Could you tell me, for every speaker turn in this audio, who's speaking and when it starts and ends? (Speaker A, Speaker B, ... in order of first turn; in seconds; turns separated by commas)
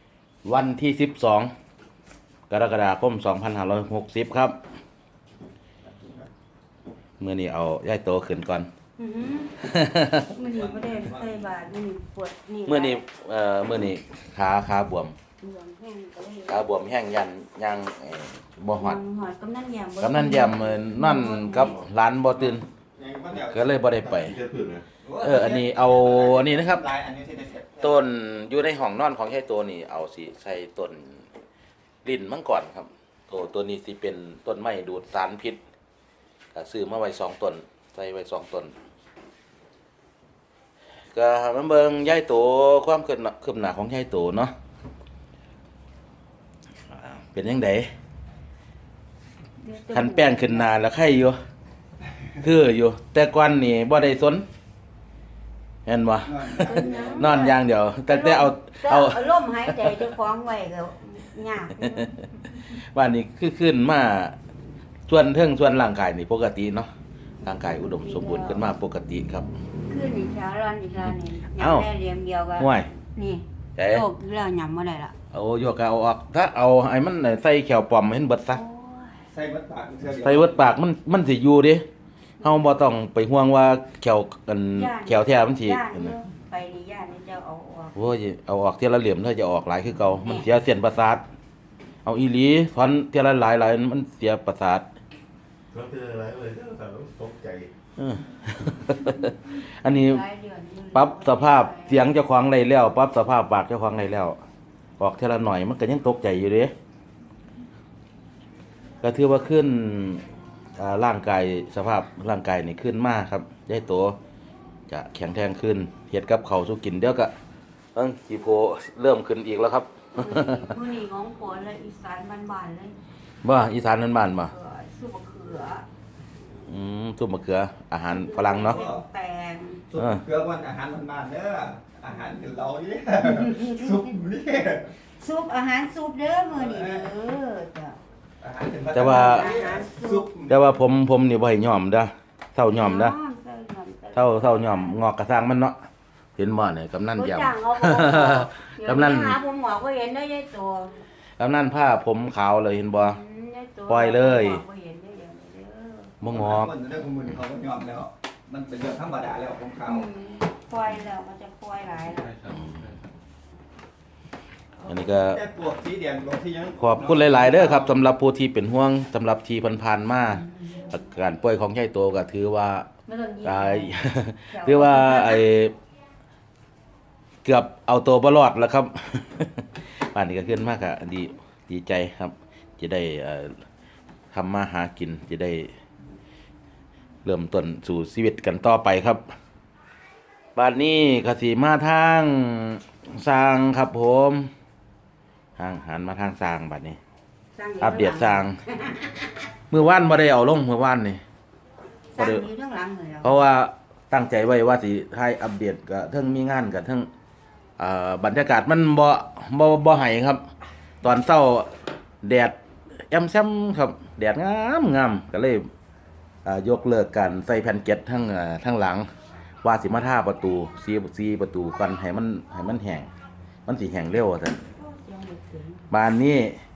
Speaker A: 0.4-1.5, Speaker A: 2.5-4.6, Speaker B: 5.8-6.3, Speaker A: 7.2-8.7, Speaker C: 9.0-9.5, Speaker A: 9.6-10.3, Speaker C: 10.3-13.0, Speaker B: 10.3-11.6, Speaker A: 12.7-15.1, Speaker C: 15.4-16.7, Speaker A: 16.5-19.0, Speaker C: 18.8-21.8, Speaker A: 20.0-22.6, Speaker B: 22.9-23.7, Speaker A: 23.5-24.4, Speaker D: 24.2-24.8, Speaker B: 25.0-28.1, Speaker A: 25.2-26.8, Speaker A: 27.8-31.2, Speaker A: 32.0-35.6, Speaker A: 36.5-38.7, Speaker A: 41.1-44.5, Speaker A: 46.9-47.9, Speaker C: 49.6-50.7, Speaker A: 49.9-51.4, Speaker A: 52.4-54.4, Speaker A: 55.9-60.1, Speaker B: 56.2-57.3, Speaker C: 56.6-62.2, Speaker A: 61.8-62.2, Speaker A: 62.7-64.3, Speaker A: 65.1-66.9, Speaker A: 67.4-69.5, Speaker C: 67.8-68.6, Speaker C: 69.8-75.2, Speaker A: 71.5-71.9, Speaker A: 72.6-72.9, Speaker A: 73.8-74.0, Speaker A: 75.3-78.6, Speaker C: 78.5-79.2, Speaker B: 79.3-80.7, Speaker A: 80.2-81.8, Speaker A: 82.4-86.1, Speaker C: 84.7-87.9, Speaker A: 87.9-91.2, Speaker A: 92.0-94.8, Speaker D: 95.7-97.7, Speaker A: 98.0-100.2, Speaker C: 99.8-102.1, Speaker A: 100.9-104.4, Speaker A: 105.0-106.7, Speaker A: 109.0-110.2, Speaker A: 110.8-114.2, Speaker A: 114.9-117.3, Speaker A: 117.9-120.7, Speaker C: 120.2-123.0, Speaker A: 123.4-124.5, Speaker C: 124.4-125.8, Speaker A: 126.7-128.8, Speaker C: 128.1-129.8, Speaker B: 128.6-129.0, Speaker B: 129.9-134.9, Speaker A: 130.0-130.2, Speaker C: 133.4-134.0, Speaker C: 135.2-138.0, Speaker B: 136.5-137.1, Speaker B: 138.4-140.6, Speaker A: 138.9-139.5, Speaker C: 139.0-140.3, Speaker A: 140.5-143.1, Speaker C: 142.7-145.0, Speaker A: 144.1-145.8, Speaker A: 146.4-149.4, Speaker C: 147.2-150.9, Speaker A: 151.4-153.2, Speaker C: 153.0-156.1, Speaker A: 153.9-154.6, Speaker A: 156.2-156.7, Speaker B: 156.2-160.1, Speaker C: 159.8-162.4, Speaker A: 162.5-162.9, Speaker A: 164.8-165.4, Speaker B: 165.2-167.9, Speaker A: 166.8-172.9, Speaker C: 170.6-170.8, Speaker C: 173.1-175.5, Speaker A: 173.4-175.7, Speaker A: 177.4-183.6, Speaker A: 184.3-185.7, Speaker A: 187.2-189.2, Speaker A: 190.5-194.5, Speaker A: 195.6-197.0, Speaker C: 197.6-199.4, Speaker A: 197.8-198.6, Speaker A: 199.7-201.2, Speaker C: 202.1-203.4, Speaker A: 202.2-202.4, Speaker A: 203.2-207.1, Speaker A: 207.8-210.4, Speaker A: 211.0-212.6, Speaker A: 213.1-215.7, Speaker A: 216.4-219.1, Speaker A: 219.6-223.1, Speaker A: 223.7-224.6, Speaker C: 224.8-225.9, Speaker A: 225.9-226.6